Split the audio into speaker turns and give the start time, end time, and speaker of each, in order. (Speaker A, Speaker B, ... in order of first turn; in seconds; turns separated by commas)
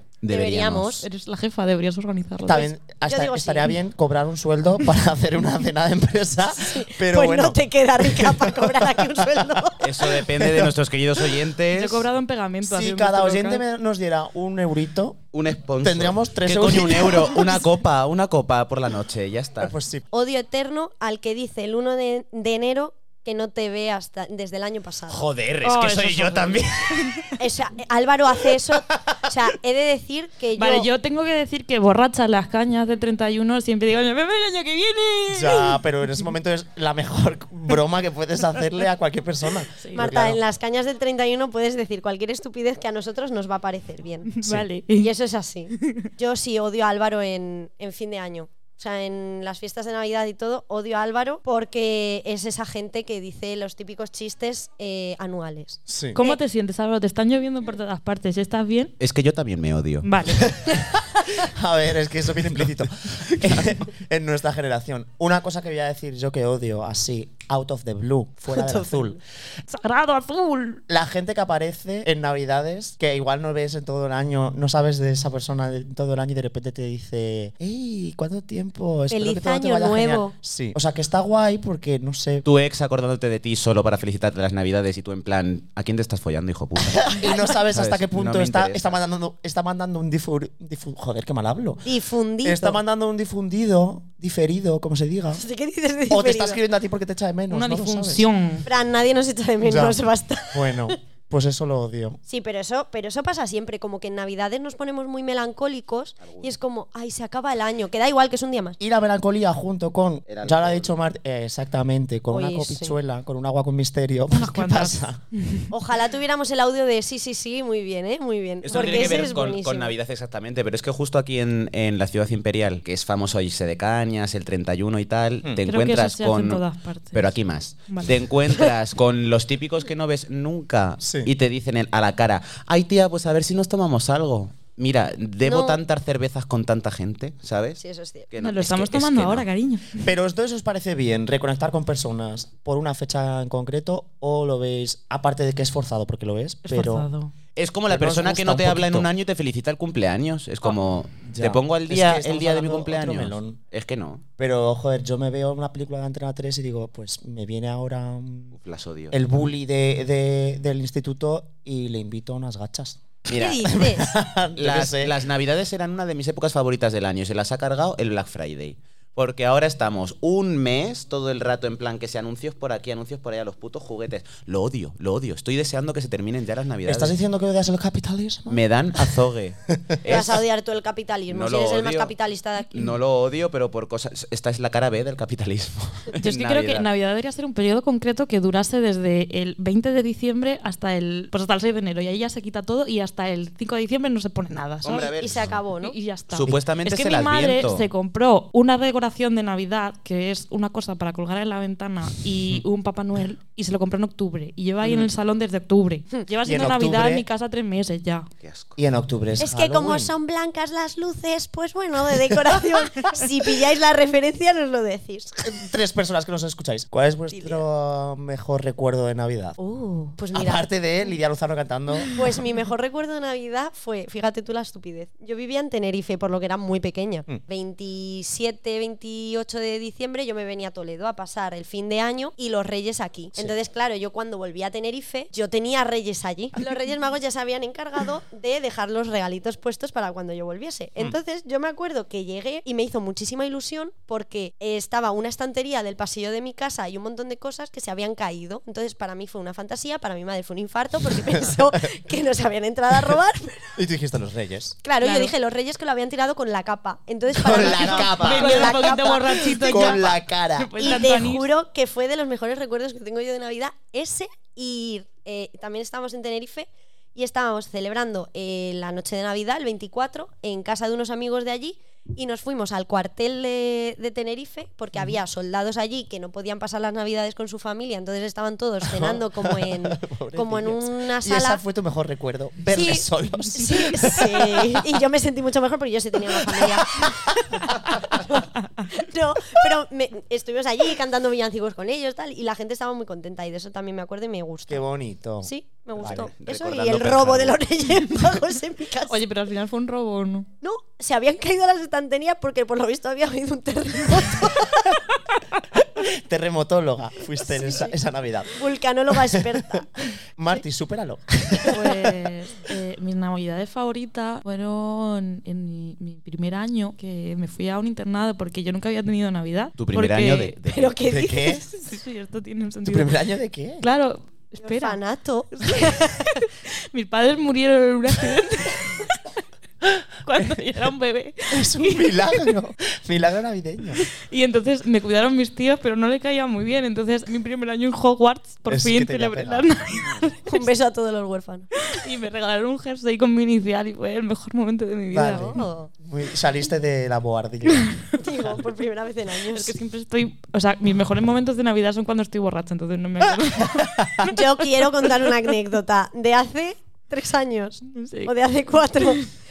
Speaker A: 0.2-1.0, Speaker B: 0.3-1.1, Speaker C: 1.0-2.7, Speaker D: 2.5-9.5, Speaker B: 3.0-3.7, Speaker B: 6.5-9.9, Speaker A: 9.8-12.1, Speaker D: 10.2-10.7, Speaker C: 11.7-13.6, Speaker D: 12.6-15.2, Speaker A: 15.3-19.7, Speaker D: 15.8-17.6, Speaker D: 19.6-20.1, Speaker B: 20.1-25.2, Speaker A: 25.1-27.2, Speaker C: 25.6-27.3, Speaker B: 27.4-30.9, Speaker C: 30.6-35.8, Speaker D: 35.3-40.4, Speaker C: 39.8-40.0, Speaker B: 39.9-44.4, Speaker C: 44.3-45.1, Speaker B: 44.9-56.4, Speaker C: 45.8-46.1, Speaker D: 55.9-56.2, Speaker C: 56.1-58.9, Speaker A: 59.0-60.1, Speaker C: 60.0-60.5, Speaker D: 60.6-69.2, Speaker B: 68.5-69.2, Speaker C: 69.7-70.8, Speaker D: 70.9-82.5, Speaker B: 79.1-80.3, Speaker A: 82.4-89.0, Speaker D: 86.9-91.8, Speaker B: 91.8-92.8, Speaker D: 92.4-95.4, Speaker B: 95.3-96.6, Speaker D: 96.1-98.3, Speaker C: 97.5-98.7, Speaker B: 98.7-101.0, Speaker D: 99.6-100.0, Speaker D: 100.5-102.2, Speaker B: 102.3-108.8, Speaker A: 106.2-106.5, Speaker D: 108.8-115.2, Speaker A: 110.3-111.0, Speaker B: 112.3-113.0, Speaker C: 114.3-115.7, Speaker B: 115.7-119.9, Speaker A: 118.6-137.8, Speaker C: 118.7-119.3, Speaker C: 125.7-127.3, Speaker C: 127.9-128.1, Speaker D: 131.0-131.3, Speaker B: 135.4-135.8, Speaker B: 137.8-138.3, Speaker A: 138.3-139.5, Speaker C: 138.4-140.1, Speaker D: 140.0-147.1, Speaker C: 146.6-147.3, Speaker A: 147.6-154.2, Speaker D: 147.9-149.1, Speaker D: 151.3-153.6, Speaker D: 154.4-158.6, Speaker A: 158.6-159.2, Speaker D: 159.1-163.0, Speaker A: 163.3-163.8, Speaker B: 163.3-164.2, Speaker D: 163.7-165.2, Speaker A: 164.6-177.1, Speaker D: 176.9-179.2, Speaker A: 178.5-180.4, Speaker D: 179.9-180.2, Speaker B: 180.1-182.9, Speaker A: 181.3-182.1, Speaker A: 182.7-186.9, Speaker C: 186.2-195.1, Speaker A: 194.8-195.5, Speaker B: 194.9-196.0, Speaker C: 195.8-208.3, Speaker A: 196.3-197.9, Speaker A: 204.8-205.1, Speaker D: 206.4-207.3, Speaker A: 208.4-208.7, Speaker D: 208.8-210.1, Speaker B: 209.4-215.4, Speaker D: 215.4-219.6, Speaker B: 217.3-217.6, Speaker B: 219.6-220.7, Speaker D: 220.3-222.2, Speaker B: 222.2-253.8, Speaker D: 253.8-254.8, Speaker B: 254.8-260.0, Speaker C: 255.0-255.3, Speaker D: 257.3-261.0, Speaker C: 257.7-261.5, Speaker B: 260.8-281.6, Speaker D: 278.9-284.7, Speaker B: 282.7-294.9, Speaker D: 286.4-288.2, Speaker D: 294.7-296.3, Speaker B: 295.4-299.2, Speaker A: 296.0-297.6, Speaker C: 299.1-300.5, Speaker B: 300.6-304.8, Speaker D: 305.9-308.5, Speaker B: 307.5-307.9, Speaker B: 308.5-309.9, Speaker D: 309.2-312.1, Speaker C: 311.7-320.5, Speaker A: 319.8-321.0, Speaker B: 320.7-321.6, Speaker D: 321.1-321.6, Speaker C: 321.5-323.1, Speaker D: 322.8-323.9, Speaker C: 323.8-325.0, Speaker B: 324.6-326.2, Speaker C: 325.6-329.3, Speaker C: 330.2-332.5, Speaker D: 330.4-330.7, Speaker D: 331.5-334.1, Speaker C: 334.1-340.4, Speaker D: 338.7-339.7, Speaker B: 340.5-341.7, Speaker C: 341.9-345.6, Speaker D: 345.1-348.0, Speaker B: 345.3-345.9, Speaker C: 347.7-348.0, Speaker B: 348.2-349.8, Speaker C: 349.5-354.4, Speaker B: 354.2-359.3, Speaker C: 357.9-358.3, Speaker C: 359.0-359.2